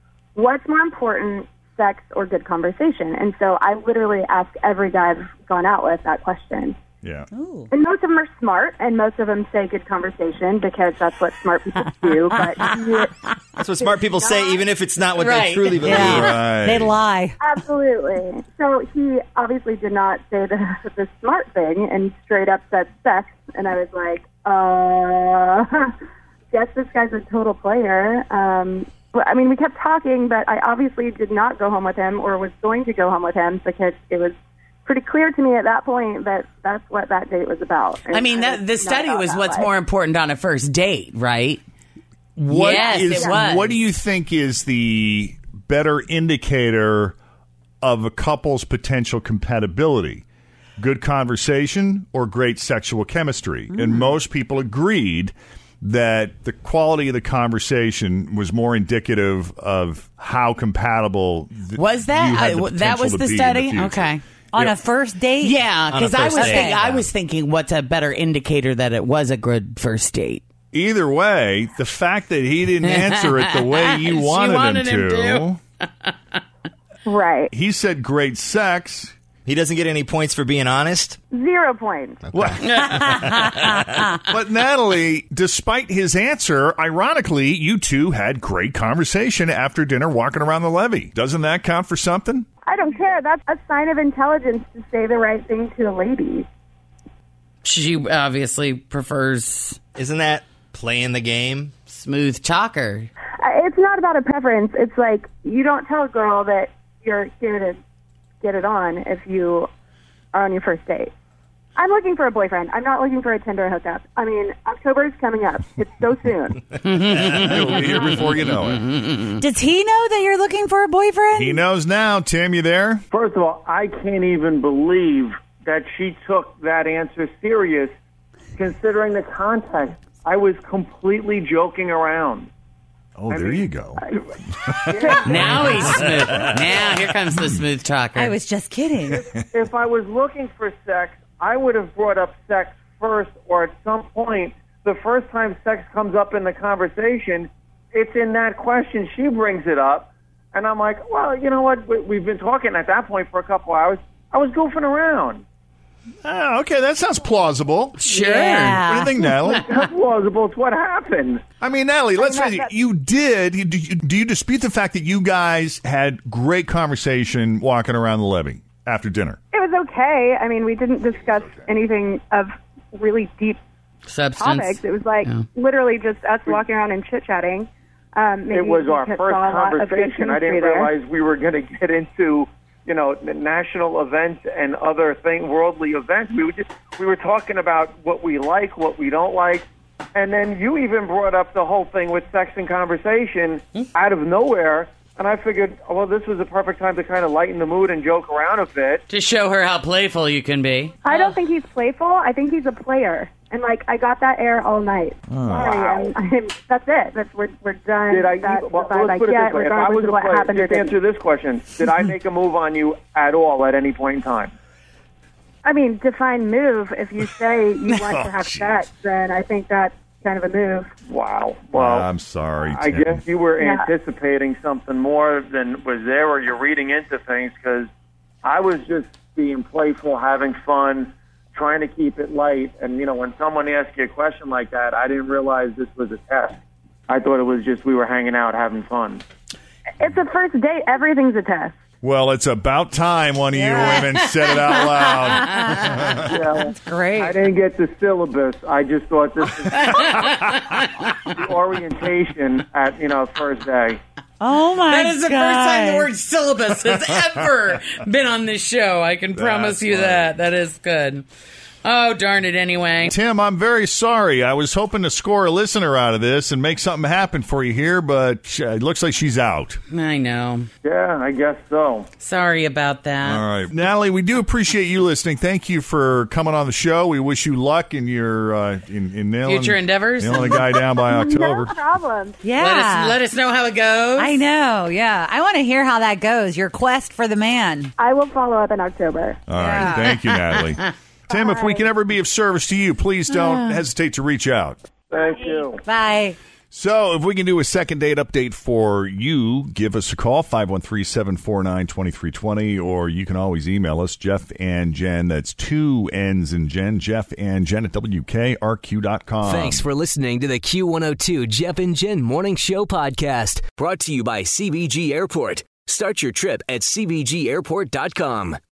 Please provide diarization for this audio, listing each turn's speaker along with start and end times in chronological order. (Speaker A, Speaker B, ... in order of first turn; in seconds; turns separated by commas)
Speaker A: 0.3-6.8, Speaker B: 7.0-7.3, Speaker C: 7.3-7.7, Speaker A: 7.7-13.2, Speaker C: 12.3-12.7, Speaker D: 13.6-16.2, Speaker A: 13.8-14.6, Speaker E: 15.2-16.4, Speaker C: 15.7-17.4, Speaker B: 15.9-17.0, Speaker A: 17.4-25.9, Speaker A: 26.5-39.7, Speaker E: 38.1-41.6, Speaker B: 42.4-47.1, Speaker E: 42.5-43.8, Speaker A: 42.6-43.4, Speaker B: 47.8-50.2, Speaker B: 50.8-64.8, Speaker E: 61.8-64.2, Speaker C: 64.5-65.7, Speaker E: 65.4-70.4, Speaker D: 65.9-67.1, Speaker C: 66.4-66.8, Speaker B: 70.7-75.6, Speaker E: 74.0-75.5, Speaker A: 77.0-77.5, Speaker B: 77.5-79.1, Speaker D: 79.5-81.2, Speaker A: 81.3-82.2, Speaker D: 82.3-82.6, Speaker B: 82.3-83.3, Speaker E: 82.6-83.8, Speaker B: 84.1-92.5, Speaker A: 92.6-96.5, Speaker E: 97.6-99.8, Speaker D: 100.0-101.7, Speaker E: 101.9-103.1, Speaker A: 103.4-107.8, Speaker A: 108.4-109.7, Speaker A: 110.3-111.1, Speaker A: 111.8-116.7, Speaker E: 116.8-119.2, Speaker B: 117.2-118.8, Speaker C: 119.4-121.6, Speaker B: 121.3-123.0, Speaker F: 123.1-127.9, Speaker F: 128.6-132.5, Speaker B: 133.2-134.0, Speaker F: 133.3-133.6, Speaker B: 134.6-137.6, Speaker F: 134.9-135.6, Speaker A: 134.9-135.3, Speaker E: 135.2-138.3, Speaker C: 138.1-139.2, Speaker F: 139.5-155.4, Speaker B: 156.2-158.0, Speaker E: 158.0-159.6, Speaker C: 158.1-159.1, Speaker B: 158.7-159.6, Speaker F: 159.6-161.4, Speaker B: 161.6-169.4, Speaker A: 162.2-162.7, Speaker A: 169.5-173.6, Speaker E: 174.1-175.4, Speaker A: 174.4-180.9, Speaker F: 178.5-199.0, Speaker E: 199.1-201.3, Speaker A: 201.0-211.0, Speaker B: 205.3-205.7, Speaker F: 205.6-206.1, Speaker F: 208.1-214.5, Speaker A: 215.6-220.9, Speaker B: 218.0-218.8, Speaker F: 221.1-222.1, Speaker B: 221.7-223.2, Speaker F: 222.6-227.9, Speaker A: 223.6-223.9, Speaker F: 228.4-239.2, Speaker A: 240.0-241.7, Speaker B: 242.0-246.3, Speaker C: 243.5-244.0, Speaker C: 245.5-245.9, Speaker F: 246.3-250.3, Speaker C: 246.5-247.4, Speaker E: 249.8-250.8, Speaker F: 251.3-254.0, Speaker C: 254.4-256.1, Speaker E: 254.9-261.2, Speaker B: 259.3-260.4, Speaker E: 261.8-263.1, Speaker B: 263.0-269.8, Speaker E: 269.9-270.7, Speaker F: 270.8-272.1, Speaker E: 272.2-273.4, Speaker B: 273.2-281.7, Speaker E: 279.4-280.7, Speaker A: 281.0-282.4, Speaker C: 282.4-283.2, Speaker E: 282.6-284.5, Speaker C: 284.2-287.9, Speaker A: 288.0-289.4, Speaker B: 289.5-294.8, Speaker C: 289.5-290.1, Speaker A: 291.3-291.9, Speaker F: 295.1-295.8, Speaker C: 295.3-296.4, Speaker B: 296.7-309.9, Speaker G: 309.5-318.6